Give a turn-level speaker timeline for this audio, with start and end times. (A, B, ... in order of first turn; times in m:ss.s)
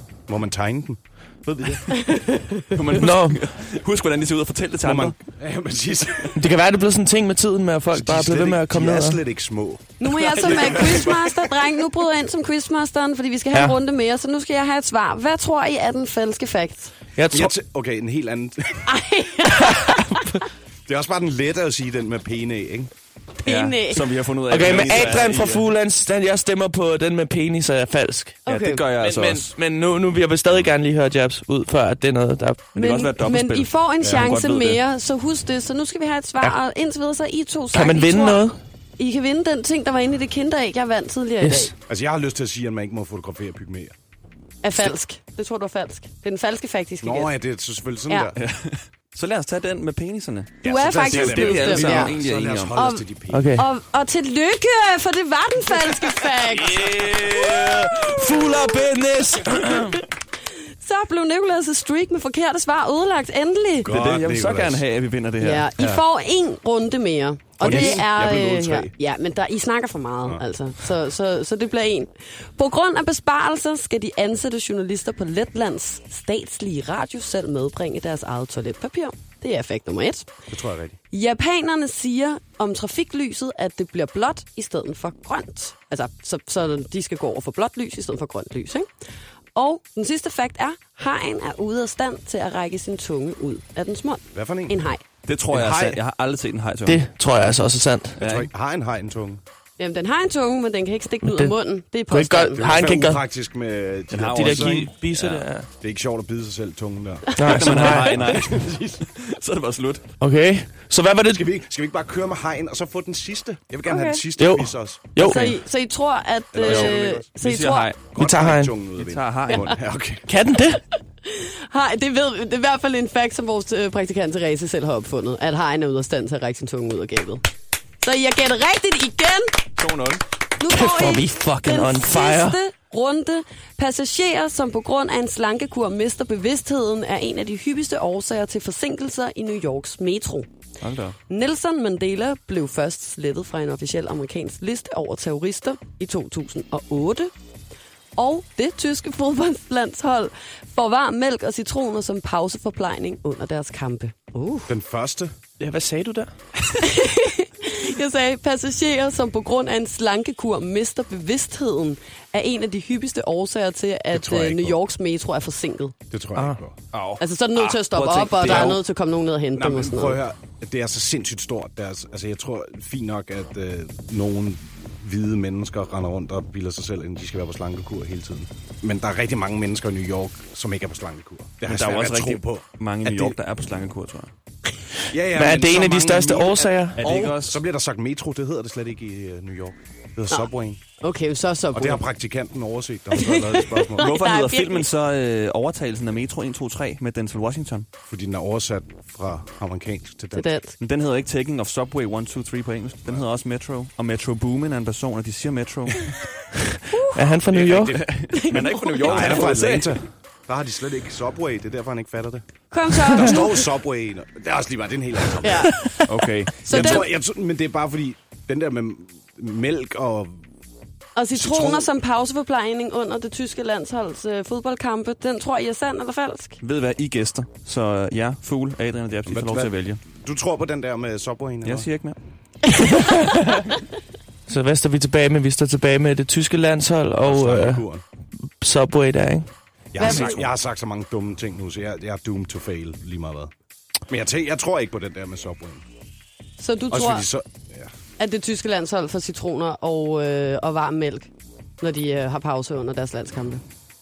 0:00.3-0:02.0 A
0:01.9-0:02.7 B
0:02.7-0:05.2 C
0:02.9-0:03.4 D
0:04.8-0:06.5 A
0:06.4-0:09.2 D
0:07.9-0:09.9 A
0:10.0-0:16.9 B
0:10.1-0:11.7 C
0:10.6-0:10.9 A
0:13.5-0:13.8 D
0:17.2-0:17.5 D
0:17.3-0:19.0 A
0:18.8-0:20.2 B
0:19.5-0:20.3 D
0:20.8-0:22.9 A
0:23.4-0:24.0 B
0:23.4-0:25.7 C
0:24.5-0:32.7 D
0:24.6-0:25.1 A
0:28.4-0:28.8 B
0:28.5-0:29.5 C
0:32.7-0:34.8 C
0:32.8-0:38.4 B
0:34.0-0:34.4 A
0:37.7-0:38.6 D
0:39.0-0:41.7 B
0:41.4-0:41.7 D
0:41.8-0:44.0 A
0:44.6-0:47.3 B
0:47.0-0:48.4 A
0:48.4-0:52.7 C
0:50.6-0:53.6 A
0:50.6-0:52.1 B
0:52.7-0:56.9 B
0:53.3-0:53.7 D
0:56.4-0:57.6 C
0:56.7-1:00.0 D
0:57.6-0:58.9 B
1:00.8-1:03.9 B
1:03.8-1:04.8 A
1:03.8-1:05.7 C
1:05.4-1:20.3 B
1:05.8-1:06.0 A
1:07.6-1:08.9 A
1:20.5-1:21.0 A
1:21.1-1:28.9 B
1:29.5-1:35.0 B
1:34.3-1:34.8 A
1:35.2-1:37.0 C
1:35.5-1:36.0 A
1:36.9-1:38.2 D
1:38.2-1:38.5 C
1:38.2-1:39.4 A
1:39.8-1:42.6 B
1:41.2-1:41.5 D
1:42.1-1:43.2 D
1:42.6-1:44.9 A
1:44.1-1:45.5 C
1:44.1-1:45.7 D
1:45.8-1:49.1 A
1:47.4-1:48.2 D
1:47.4-1:50.0 C
1:50.2-1:51.4 D
1:51.3-1:55.0 A
1:53.8-1:54.2 B
1:54.4-1:55.6 D
1:55.2-1:57.9 B
1:56.5-1:57.3 A
1:56.6-1:58.0 C
1:58.1-2:00.4 A
1:58.1-1:58.7 D
1:59.0-1:59.7 C
2:00.3-2:00.8 D
2:01.2-2:07.4 B
2:08.0-2:09.6 B
2:09.8-2:10.2 C
2:10.6-2:20.5 B
2:10.6-2:12.6 D
2:20.8-2:21.2 C
2:21.3-2:27.3 B
2:28.2-2:34.7 B
2:34.7-2:35.3 A
2:35.6-2:36.3 D
2:36.8-2:45.9 B
2:44.1-2:44.8 A
2:46.1-2:46.8 A
2:46.9-2:48.8 C
2:47.2-2:50.2 B
2:48.4-2:48.8 A
2:49.5-3:03.4 A
3:01.6-3:04.3 C
3:05.1-3:10.8 A
3:05.3-3:07.1 D
3:07.0-3:07.6 C
3:10.3-3:12.0 B
3:11.7-3:14.2 A
3:13.1-3:14.9 B
3:14.0-3:17.9 C
3:18.1-3:20.5 A
3:20.3-3:20.8 B
3:20.8-3:26.1 C
3:26.6-3:28.0 D
3:26.9-3:27.3 B
3:27.5-3:30.0 C
3:28.3-3:29.6 B
3:29.0-3:32.4 A
3:32.7-3:33.7 B
3:33.0-3:35.9 A
3:35.4-3:36.0 B
3:36.0-3:37.0 C
3:36.6-3:37.1 B
3:36.6-3:40.4 A
3:41.2-3:46.6 B
3:41.3-3:41.9 A
3:46.6-3:50.0 C
3:49.2-3:51.9 A
3:51.6-3:52.2 C
3:52.7-3:53.0 B
3:52.9-3:53.7 D
3:54.5-3:57.8 D
3:57.2-3:58.0 A
3:58.6-3:59.5 D
3:59.9-4:03.5 A
4:00.0-4:00.4 B
4:00.0-4:00.3 C
4:04.1-4:05.8 A
4:06.6-4:07.3 B
4:06.9-4:07.9 A
4:08.2-4:13.6 B